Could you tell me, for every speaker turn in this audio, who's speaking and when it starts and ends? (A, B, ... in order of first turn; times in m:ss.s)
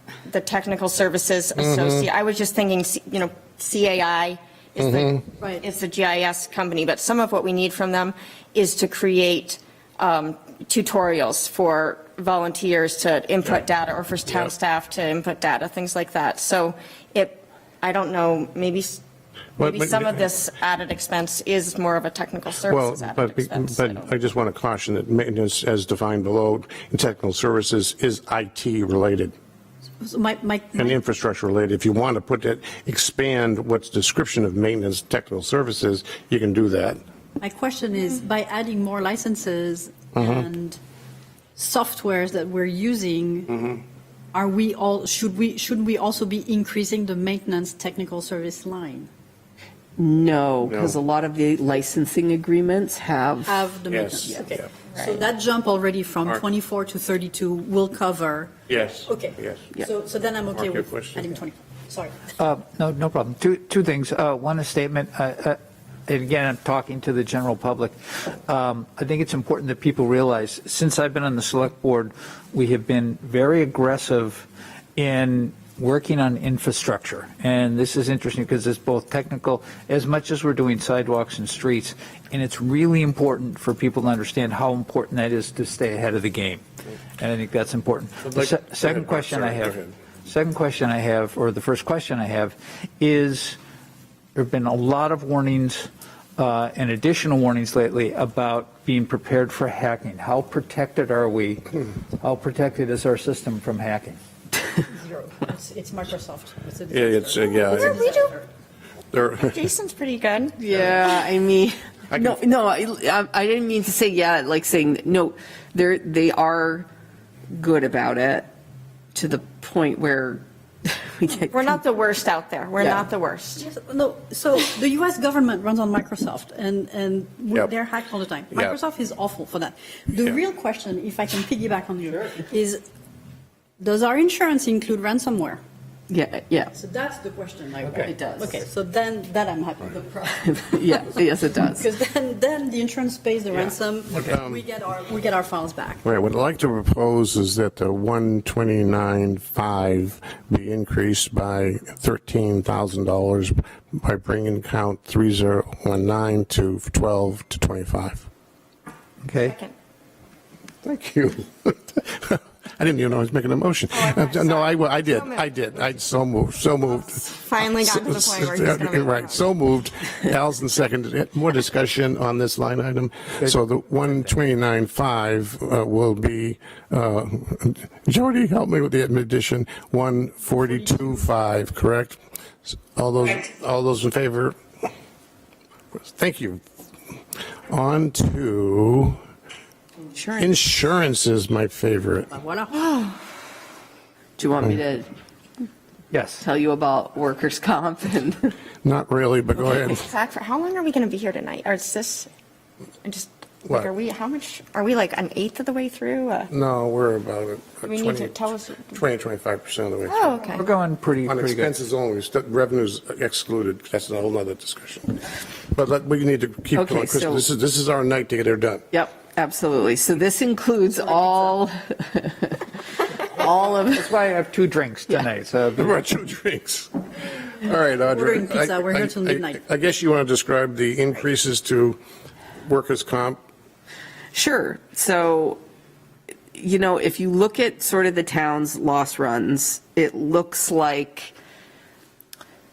0:00.2-0:19.0 A
0:01.6-0:02.0 B
0:04.8-0:05.2 B
0:19.6-0:20.3 B
0:19.6-0:24.1 A
0:22.7-0:29.3 B
0:30.0-0:31.0 C
0:30.7-0:37.0 B
0:37.4-0:40.8 C
0:40.1-0:40.5 B
0:41.6-0:43.7 C
0:44.3-0:49.1 C
0:50.0-0:53.6 D
0:50.6-0:51.0 B
0:53.5-0:58.5 C
0:53.9-0:54.6 B
0:58.7-0:59.6 B
0:59.0-1:02.2 C
1:00.5-1:01.3 B
1:02.4-1:26.6 E
1:27.2-1:33.6 E
1:28.2-1:29.9 B
1:34.3-1:44.2 E
1:44.9-1:48.5 C
1:46.9-1:48.0 B
1:47.7-1:48.3 A
1:49.1-1:49.6 B
1:49.4-1:50.6 A
1:50.6-1:56.9 D
1:52.1-1:52.4 B
1:57.5-1:58.5 D
1:59.1-2:01.8 D
2:01.5-2:03.6 A
2:03.6-2:12.8 C
2:08.5-2:08.8 B
2:13.8-2:15.6 C
2:16.1-2:16.7 D
2:16.7-2:21.0 C
2:18.0-2:18.6 D
2:20.3-2:21.8 D
2:21.6-2:26.0 C
2:24.1-2:24.6 B
2:26.0-2:38.3 B
2:39.2-2:39.6 E
2:39.4-2:39.7 A
2:40.8-3:04.6 B
2:43.9-2:45.4 A
2:47.1-2:49.5 A
3:05.9-3:06.6 B
3:07.7-3:09.2 B
3:10.1-3:10.6 D
3:10.4-3:12.3 B
3:12.3-3:13.1 C
3:14.4-3:15.1 D
3:16.1-3:16.4 E
3:16.4-3:18.5 D
3:18.8-3:20.0 B
3:19.8-3:22.3 A
3:23.0-3:26.5 A
3:26.5-3:30.5 B
3:27.8-3:29.0 A
3:30.1-3:30.6 A
3:30.5-3:31.7 E
3:31.2-3:35.2 B
3:35.7-3:38.8 B
3:36.7-3:37.4 D
3:38.9-3:42.7 D
3:41.0-3:41.5 C
3:43.2-3:44.1 D
3:43.9-3:46.0 E
3:45.8-3:52.0 B
3:48.0-3:49.6 C
3:52.6-3:53.4 B
3:54.3-3:55.6 D
3:56.5-4:01.3 D